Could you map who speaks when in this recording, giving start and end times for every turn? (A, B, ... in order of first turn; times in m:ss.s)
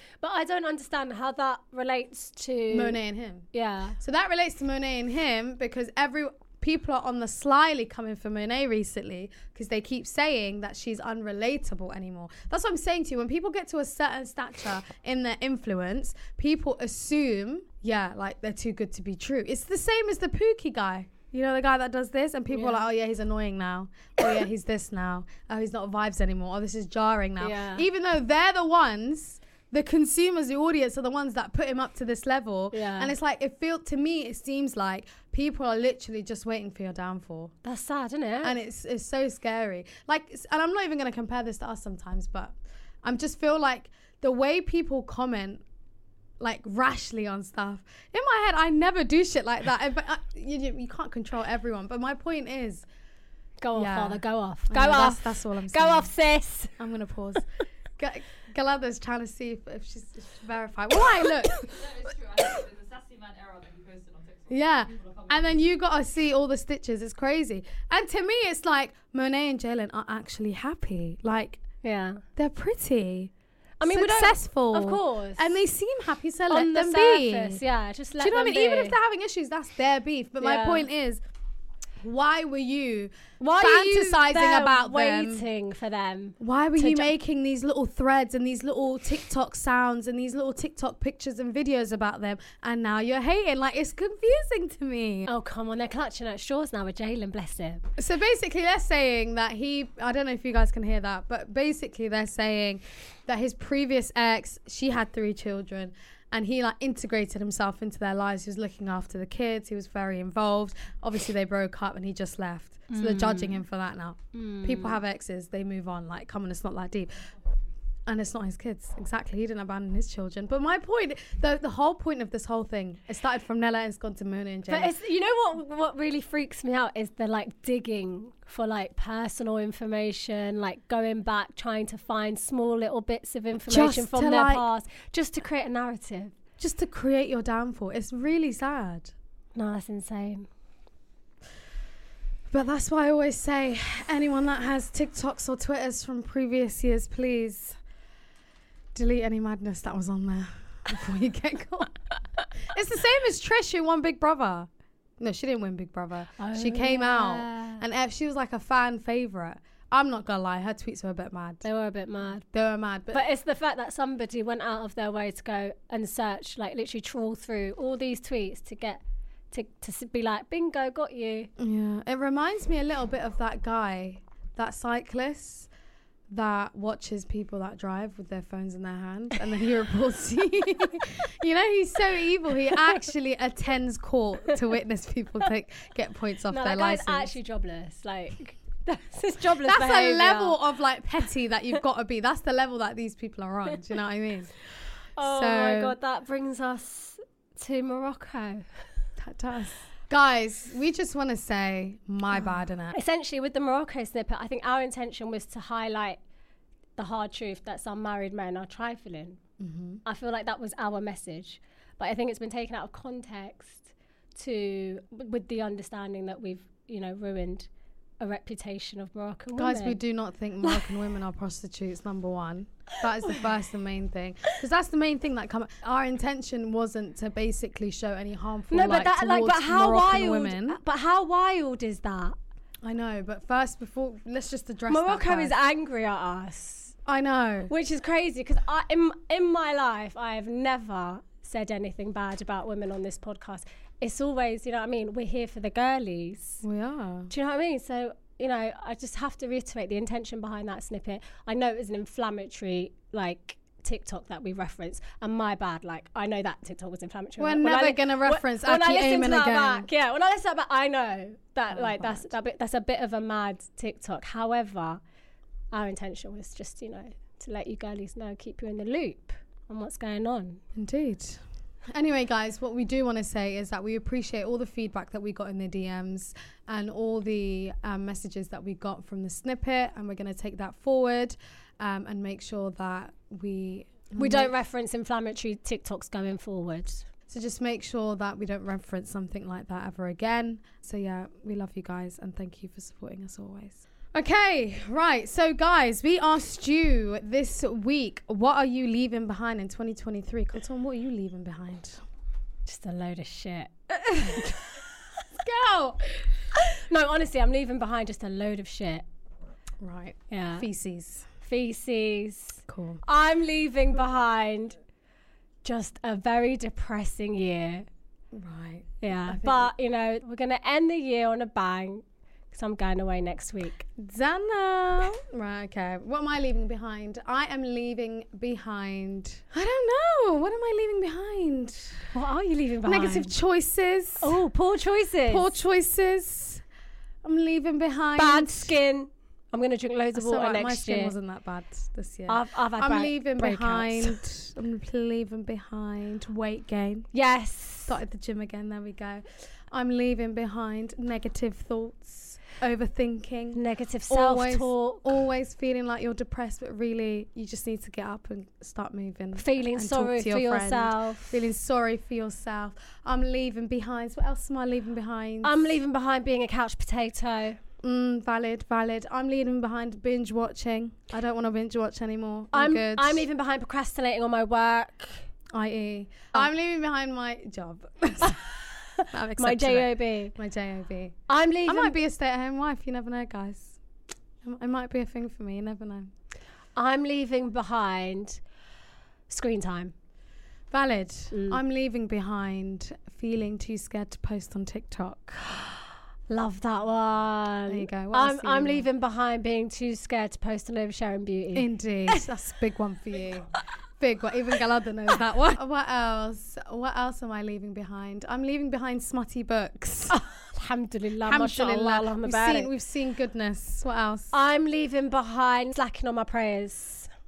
0:00.2-0:03.0 A
0:02.7-0:03.4 B
0:03.5-0:04.0 A
0:04.0-0:37.5 B
0:22.5-0:22.8 A
0:27.4-0:27.8 A
0:32.7-0:33.1 A
0:37.6-0:38.6 A
0:38.4-0:45.6 B
0:46.4-0:52.8 B
0:53.6-0:56.8 A
0:53.7-0:56.1 B
0:56.8-0:57.4 B
0:58.0-1:02.0 B
1:01.7-1:05.6 C
1:04.5-1:11.6 B
1:11.8-1:12.2 A
1:12.4-1:13.3 B
1:13.8-1:15.6 A
1:13.8-1:17.6 B
1:16.5-1:19.0 A
1:18.2-1:21.2 B
1:20.4-1:20.9 A
1:22.0-1:25.4 B
1:23.4-1:27.1 A
1:26.4-1:35.3 B
1:35.3-1:37.8 A
1:38.0-1:57.2 B
1:52.9-1:53.6 A
1:54.3-1:55.0 A
1:58.1-2:04.9 B
2:04.7-2:16.3 A
2:13.7-2:14.6 B
2:16.6-2:19.1 B
2:19.5-2:20.5 A
2:22.5-2:27.8 B
2:28.9-2:32.0 B
2:32.6-2:34.7 B
2:35.2-2:41.6 B
2:36.4-2:37.8 A
2:41.6-2:42.4 A
2:42.4-2:43.2 B
2:43.1-2:51.5 A
2:51.6-2:55.7 B
2:56.3-3:07.3 B
3:06.5-3:10.6 A
3:09.6-3:14.5 B
3:15.2-3:18.6 A
3:15.2-3:16.0 B
3:19.2-3:23.0 B
3:22.9-3:26.2 A
3:27.0-3:29.4 A
3:29.6-3:30.0 B
3:30.0-3:37.7 A
3:38.2-3:40.0 A
3:39.6-3:50.8 B
3:40.6-3:41.0 A
3:48.7-3:52.4 A
3:52.8-3:55.5 B
3:54.9-3:56.9 A
3:57.0-3:57.7 B
3:57.7-4:06.6 A
4:06.6-4:07.3 B
4:07.3-4:25.0 A
4:17.4-4:19.9 B
4:21.7-4:22.3 B
4:25.7-4:30.6 A
4:30.7-4:44.5 B
4:44.1-4:47.0 A
4:47.3-5:02.0 B
5:02.6-5:04.5 A
5:04.2-5:04.6 B
5:05.3-5:06.2 B
5:06.6-5:09.0 A
5:09.8-5:11.3 B
5:10.3-5:10.6 A
5:11.4-5:14.8 A
5:12.7-5:13.0 B
5:15.6-5:17.9 A
5:18.3-5:19.7 B
5:19.0-5:23.9 A
5:24.0-5:32.1 B
5:32.1-5:33.4 A
5:32.8-5:34.4 B
5:34.2-5:35.5 A
5:35.3-5:36.6 B
5:37.2-5:38.7 B
5:38.2-5:41.1 A
5:40.1-5:47.1 B
5:42.3-5:44.2 A
5:47.1-5:48.0 A
5:47.8-6:05.8 B
5:53.5-5:55.2 A
5:59.3-6:01.4 A
6:05.4-6:07.6 A
6:07.8-6:13.3 B
6:12.5-6:15.3 A
6:15.5-6:18.4 B
6:19.0-6:20.3 A
6:19.1-6:23.8 B
6:21.3-6:22.0 A
6:24.4-6:26.1 B
6:26.8-6:28.4 A
6:29.3-6:29.9 A
6:30.7-6:35.4 B
6:31.3-6:31.6 A
6:36.3-6:42.3 A
6:37.7-6:38.9 B
6:41.5-6:50.2 B
6:50.1-6:52.7 A
6:51.2-6:54.3 B
6:54.3-6:57.1 A